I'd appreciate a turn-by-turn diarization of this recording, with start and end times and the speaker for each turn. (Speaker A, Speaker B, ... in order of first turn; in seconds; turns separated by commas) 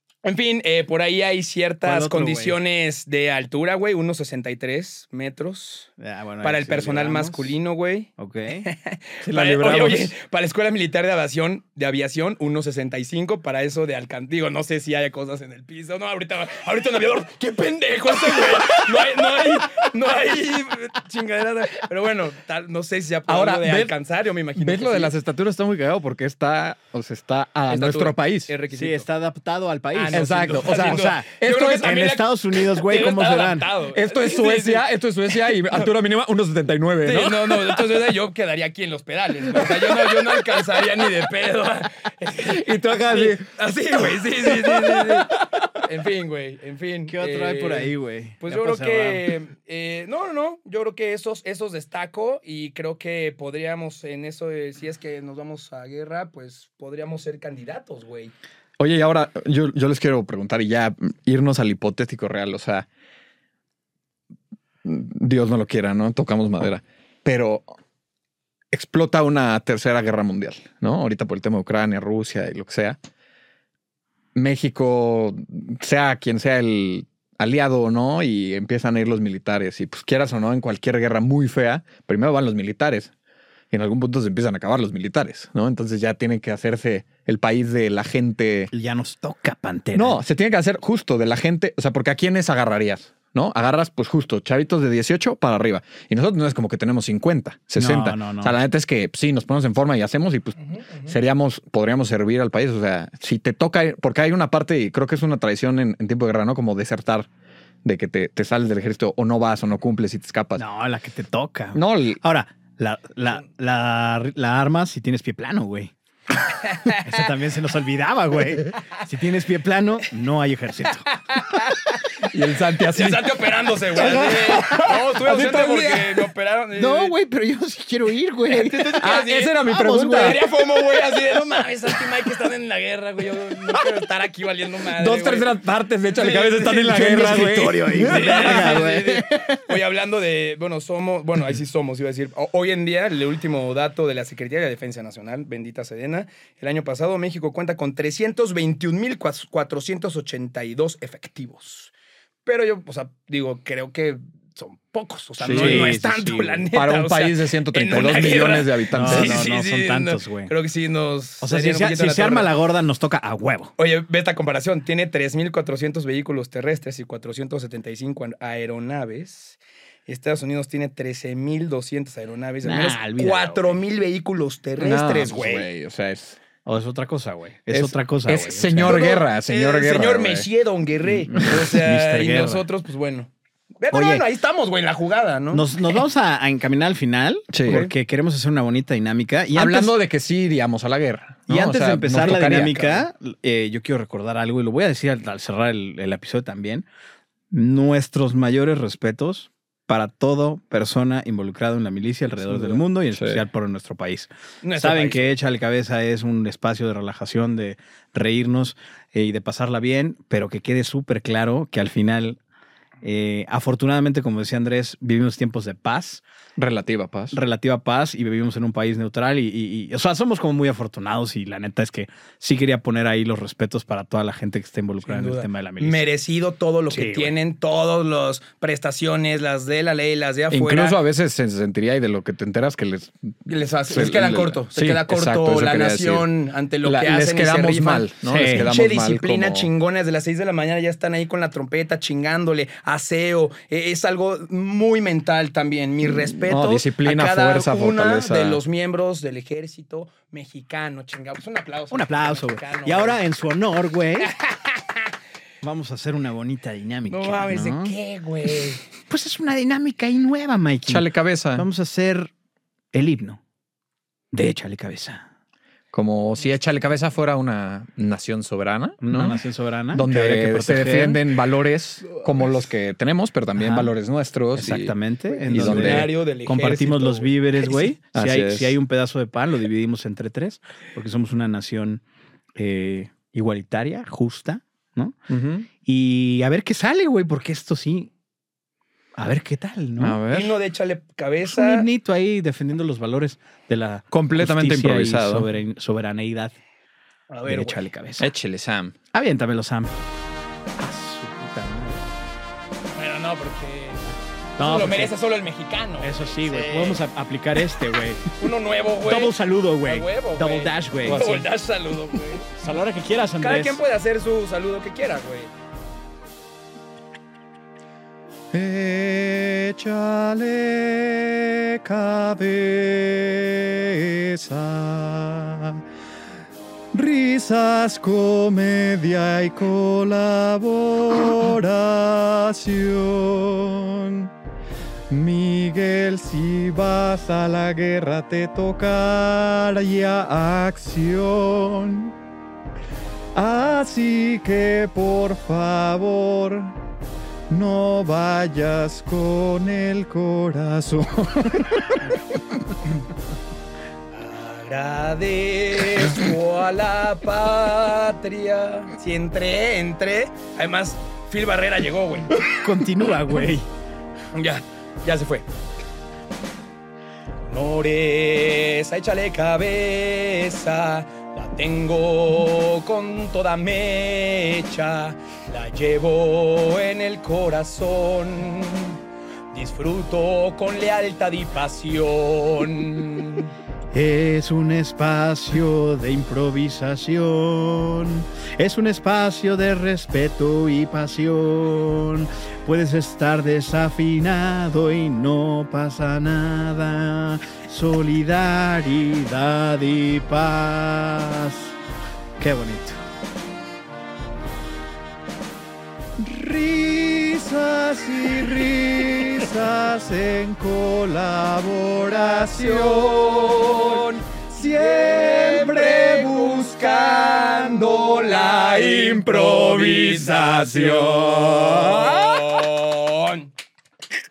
Speaker A: 0.2-5.9, Speaker B: 1.8-2.6, Speaker B: 6.0-7.6, Speaker A: 6.4-25.1, Speaker B: 8.2-8.7, Speaker C: 9.2-10.1, Speaker C: 23.3-23.9, Speaker C: 24.6-28.5, Speaker A: 27.7-29.1, Speaker B: 28.7-33.7, Speaker A: 29.9-34.8, Speaker C: 30.1-32.1, Speaker C: 34.0-37.8, Speaker A: 37.0-58.3, Speaker C: 39.6-40.4, Speaker C: 42.4-43.5, Speaker C: 44.4-45.7, Speaker B: 47.1-49.2, Speaker C: 58.8-62.9, Speaker C: 64.8-67.7, Speaker C: 68.7-73.0, Speaker C: 74.3-83.1, Speaker C: 83.7-88.7, Speaker B: 88.7-90.2, Speaker C: 90.0-107.3, Speaker B: 97.8-98.6, Speaker A: 100.8-101.1, Speaker C: 107.8-110.6, Speaker B: 110.6-115.9, Speaker C: 111.8-112.2, Speaker A: 116.7-117.0, Speaker B: 117.0-121.1, Speaker A: 121.3-121.7, Speaker C: 122.2-126.2, Speaker A: 122.9-127.1, Speaker B: 126.8-129.0, Speaker A: 128.5-129.6, Speaker C: 129.0-130.4, Speaker B: 129.6-130.5, Speaker A: 130.1-135.5, Speaker C: 135.0-138.8, Speaker A: 136.1-137.4, Speaker B: 136.7-139.7, Speaker A: 137.9-151.9, Speaker A: 152.5-162.5, Speaker C: 155.4-155.9, Speaker B: 155.5-156.7, Speaker C: 156.7-159.4, Speaker B: 158.9-160.5, Speaker B: 161.4-163.7, Speaker A: 163.8-175.7, Speaker B: 172.6-173.8, Speaker C: 174.8-176.4, Speaker B: 176.7-179.1, Speaker C: 177.7-180.5, Speaker A: 178.8-186.0, Speaker B: 181.3-182.7, Speaker B: 183.9-184.2, Speaker B: 185.5-190.0, Speaker C: 187.5-187.8, Speaker A: 187.7-187.9, Speaker C: 189.6-193.0, Speaker B: 191.5-196.9, Speaker A: 192.5-193.0, Speaker B: 197.5-212.4, Speaker A: 204.6-205.5, Speaker B: 213.0-216.2, Speaker C: 216.6-217.4, Speaker B: 217.3-226.1, Speaker A: 225.0-231.0, Speaker B: 226.9-227.3, Speaker C: 230.5-233.1, Speaker A: 233.5-253.2, Speaker C: 233.9-236.3, Speaker C: 236.8-239.7, Speaker B: 238.3-238.7, Speaker C: 246.0-248.6, Speaker B: 251.9-254.3, Speaker A: 254.3-255.1, Speaker B: 255.6-257.9, Speaker A: 257.1-258.8, Speaker B: 259.0-262.3, Speaker C: 260.9-261.7, Speaker B: 262.9-263.4, Speaker B: 264.3-265.3, Speaker C: 265.9-274.9, Speaker B: 269.0-271.2, Speaker B: 273.6-273.9, Speaker B: 274.5-282.0, Speaker A: 275.3-277.4, Speaker C: 275.5-276.1, Speaker C: 278.1-278.8, Speaker B: 282.6-285.2, Speaker C: 285.3-285.7, Speaker B: 285.8-288.1, Speaker B: 289.2-290.2, Speaker C: 290.0-290.6, Speaker A: 290.3-291.9, Speaker B: 291.4-296.6, Speaker C: 294.1-295.5, Speaker A: 297.3-297.9, Speaker B: 297.5-298.3, Speaker C: 298.2-298.9, Speaker B: 299.1-300.0, Speaker B: 300.8-302.1, Speaker A: 303.0-307.0, Speaker B: 304.6-305.2, Speaker B: 306.0-308.3, Speaker A: 308.4-312.5, Speaker B: 309.1-311.4, Speaker C: 311.1-311.4, Speaker B: 312.5-313.8, Speaker A: 313.4-315.5, Speaker C: 318.5-325.8, Speaker C: 326.9-334.3, Speaker C: 335.1-342.1, Speaker C: 343.4-346.8, Speaker C: 347.5-352.0, Speaker A: 354.1-362.4, Speaker B: 362.4-363.7, Speaker A: 364.3-365.5, Speaker A: 367.5-379.0, Speaker A: 379.5-383.5, Speaker B: 383.9-401.7, Speaker B: 402.4-403.1, Speaker C: 406.2-422.4, Speaker A: 412.4-423.5, Speaker B: 420.9-421.9